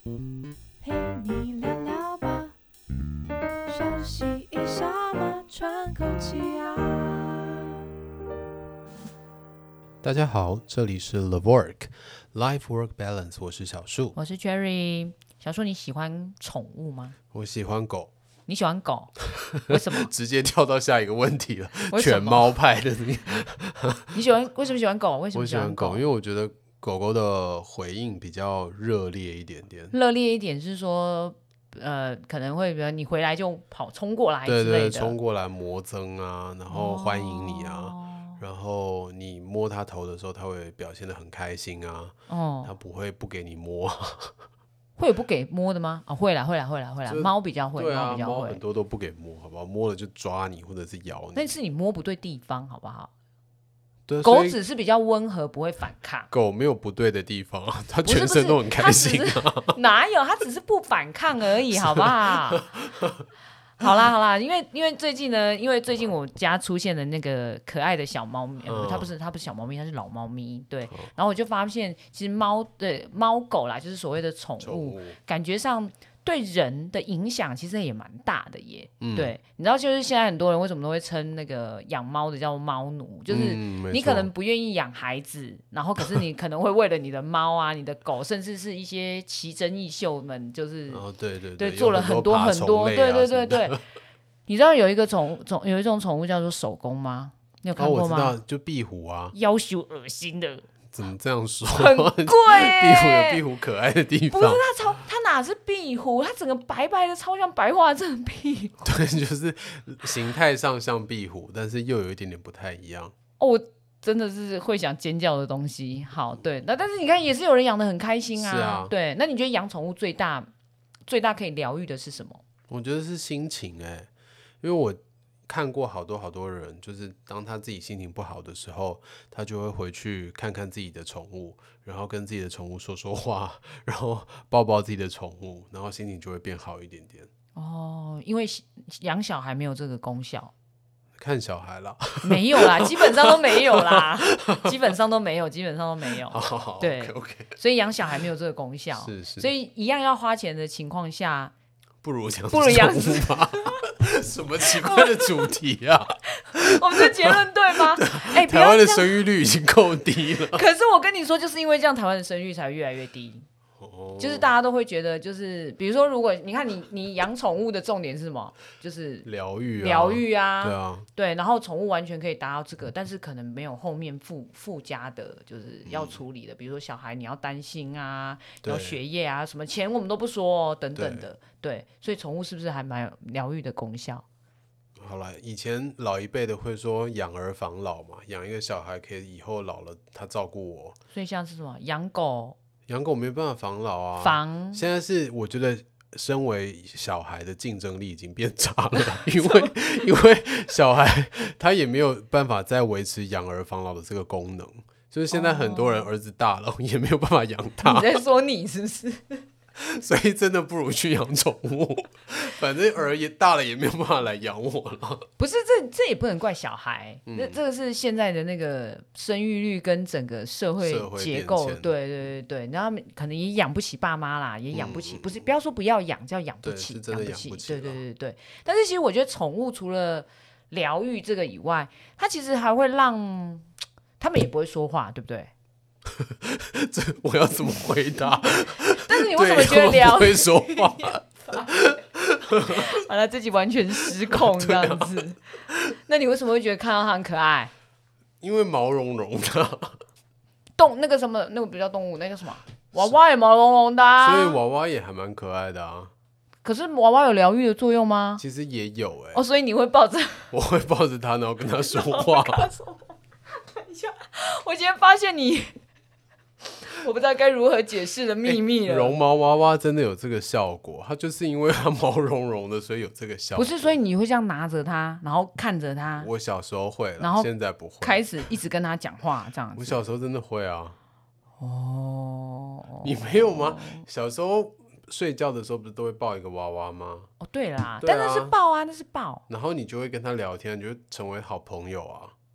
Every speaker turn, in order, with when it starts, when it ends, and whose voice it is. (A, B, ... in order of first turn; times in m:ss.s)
0:00.8-0:02.6 A
0:03.7-0:07.9 A
0:10.0-0:14.2 B
0:14.2-0:17.2 C
0:17.3-0:18.1 B
0:18.5-0:20.1 C
0:19.4-0:24.2 B
0:21.9-0:22.5 C
0:24.1-0:26.1 C
0:25.3-0:30.0 B
0:29.9-0:35.2 C
0:34.4-0:44.4 B
0:36.7-0:38.4 C
0:42.3-0:42.7 C
0:45.0-0:48.6 C
0:47.0-0:51.6 B
0:51.4-0:53.1 C
0:54.1-0:54.6 B
0:54.2-0:56.3 C
0:56.3-0:59.8 B
0:58.0-1:02.7 C
1:01.7-1:03.2 B
1:03.8-1:31.0 C
1:08.6-1:09.1 B
1:14.6-1:15.2 B
1:19.0-1:19.4 B
1:23.3-1:24.3 B
1:30.9-1:33.8 B
1:31.6-1:33.8 C
1:34.5-1:38.4 C
1:37.8-1:39.4 B
1:39.3-1:40.7 C
1:40.9-1:44.7 B
1:41.7-1:43.4 C
1:44.3-1:48.9 C
1:48.8-1:53.1 B
1:53.4-2:00.5 C
1:58.4-1:58.9 B
2:01.1-2:02.4 C
2:02.7-2:04.1 B
2:04.6-2:17.3 B
2:17.6-2:20.5 C
2:21.2-2:24.8 B
2:22.2-2:31.5 C
2:26.3-2:27.6 B
2:28.9-2:29.5 B
2:32.0-2:40.6 B
2:32.5-2:33.7 C
2:34.8-2:35.3 C
2:36.4-2:39.2 C
2:40.4-2:43.4 C
2:43.8-2:44.5 B
2:44.2-3:04.2 C
2:49.2-2:51.1 B
2:55.9-2:56.2 B
2:58.6-2:59.0 B
3:01.0-3:01.3 B
3:05.0-3:11.0 B
3:11.1-3:12.6 C
3:12.9-3:28.2 B
3:14.2-3:14.8 C
3:19.1-3:19.7 C
3:25.3-3:26.1 C
3:27.8-3:29.5 C
3:29.8-3:35.3 B
3:35.4-3:53.7 C
3:37.3-3:37.6 B
3:40.8-3:42.0 B
3:44.7-3:45.5 B
3:46.6-3:48.0 B
3:54.2-3:55.5 C
3:56.1-4:02.9 B
3:58.9-4:01.7 C
4:02.7-4:07.7 C
4:04.2-4:05.3 B
4:08.4-4:10.0 B
4:10.8-4:14.6 C
4:14.2-4:16.1 B
4:16.6-4:18.4 C
4:18.4-4:19.4 B
4:19.3-4:20.5 C
4:20.5-4:22.7 B
4:21.9-4:25.8 C
4:26.8-4:29.2 C
4:28.4-4:34.0 B
4:33.6-4:36.3 C
4:36.2-4:38.5 B
4:37.2-4:40.0 C
4:39.8-4:41.0 B
4:41.6-4:44.0 C
4:43.0-4:47.3 B
4:47.4-4:49.4 C
4:48.0-4:48.5 B
4:49.5-4:52.4 B